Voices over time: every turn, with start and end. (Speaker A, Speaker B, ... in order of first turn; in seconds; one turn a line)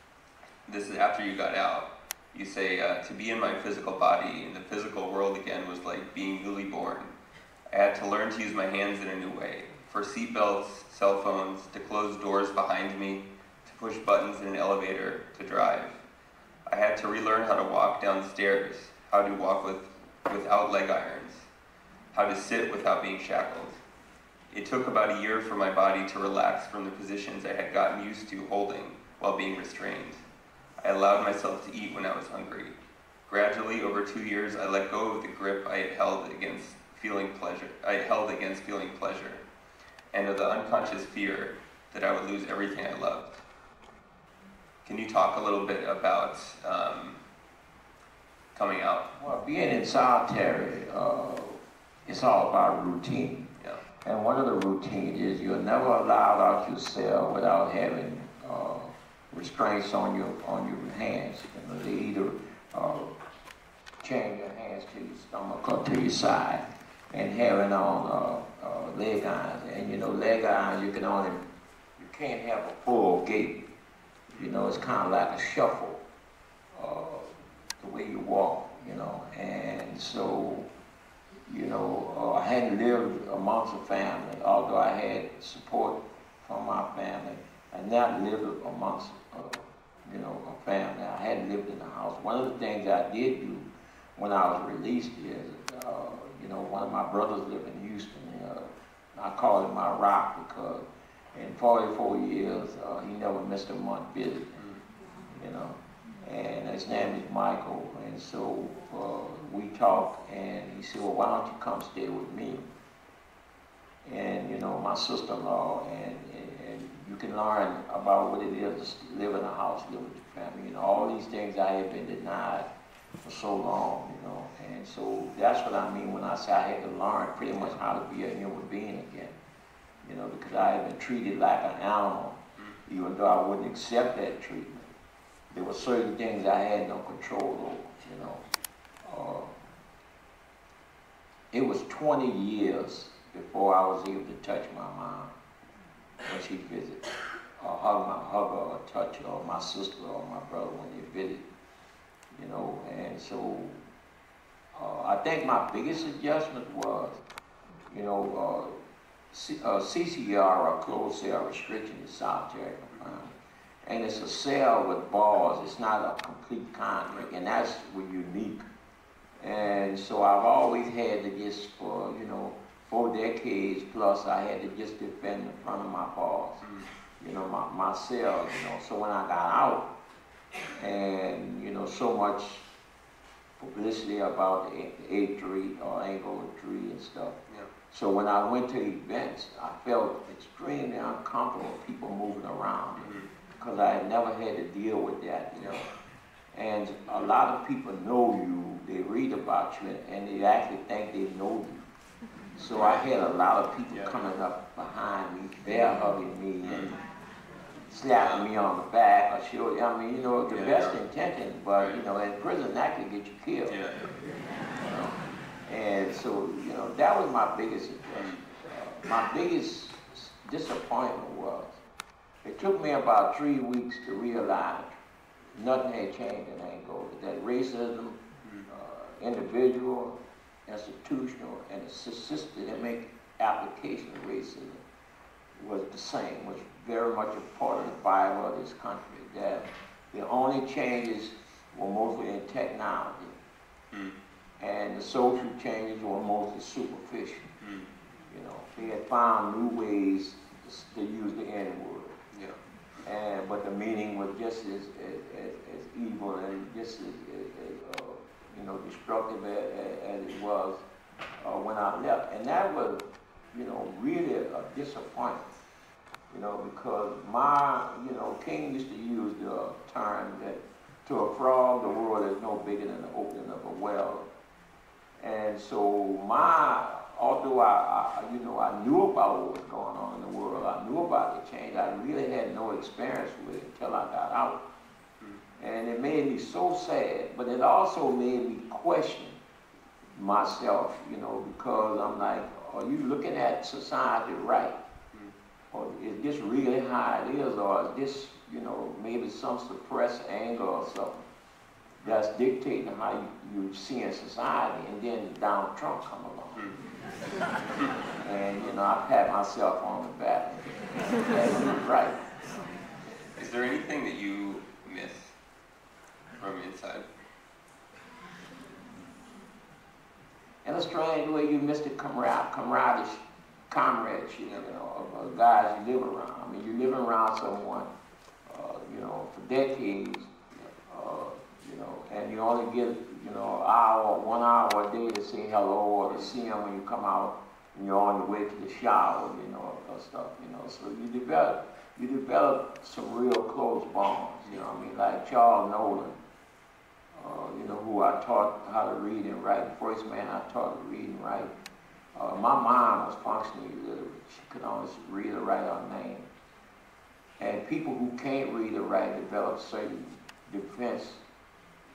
Speaker A: 0.7-7.1
Speaker A: 7.7-16.0
Speaker A: 16.7-21.5
Speaker A: 22.1-23.8
Speaker A: 24.5-30.2
Speaker A: 30.8-32.8
Speaker A: 33.3-39.4
Speaker A: 40.1-43.4
Speaker A: 44.9-47.2
Speaker A: 48.5-49.1
Speaker B: 49.2-53.5
Speaker B: 54.0-63.1
Speaker B: 64.0-71.4
Speaker B: 72.0-73.6
Speaker B: 74.3-76.0
Speaker B: 76.7-80.7
Speaker B: 81.5-104.7
Speaker B: 105.3-112.6
Speaker B: 114.0-122.7
Speaker B: 123.2-129.3
Speaker B: 130.0-134.9
Speaker B: 135.5-138.4
Speaker B: 139.1-139.5
Speaker B: 141.5-145.3
Speaker B: 146.2-147.1
Speaker B: 147.6-151.4
Speaker B: 152.3-153.8
Speaker B: 154.7-157.2
Speaker B: 157.9-158.8
Speaker B: 159.3-163.3
Speaker B: 163.8-168.6
Speaker B: 169.4-176.6
Speaker A: 176.6-176.9
Speaker B: 177.2-179.9
Speaker B: 180.8-182.7
Speaker B: 183.6-187.4
Speaker B: 187.9-195.9
Speaker A: 193.0-193.3
Speaker B: 196.5-201.8
Speaker B: 202.6-207.0
Speaker A: 202.7-203.1
Speaker A: 206.6-207.0
Speaker B: 207.9-213.8
Speaker A: 208.1-208.5
Speaker A: 210.5-211.0
Speaker A: 213.7-214.2
Speaker B: 214.8-221.8
Speaker A: 218.2-218.4
Speaker B: 222.4-224.9
Speaker B: 225.6-234.8
Speaker B: 235.6-243.4
Speaker B: 244.6-247.5
Speaker A: 247.6-247.9
Speaker B: 248.3-252.2
Speaker A: 252.3-252.6
Speaker B: 253.0-260.8
Speaker B: 261.4-263.0
Speaker B: 263.5-265.5
Speaker B: 266.3-274.3
Speaker B: 275.2-284.6
Speaker B: 285.6-289.4
Speaker B: 290.2-294.8
Speaker B: 295.7-301.2
Speaker B: 302.0-306.6
Speaker A: 306.6-306.8
Speaker B: 308.2-312.2
Speaker A: 313.4-315.4
Speaker A: 316.4-317.1
Speaker B: 320.6-327.9
Speaker B: 328.5-330.3
Speaker B: 330.9-346.2
Speaker B: 347.1-351.5
Speaker B: 352.1-356.3
Speaker B: 357.4-361.2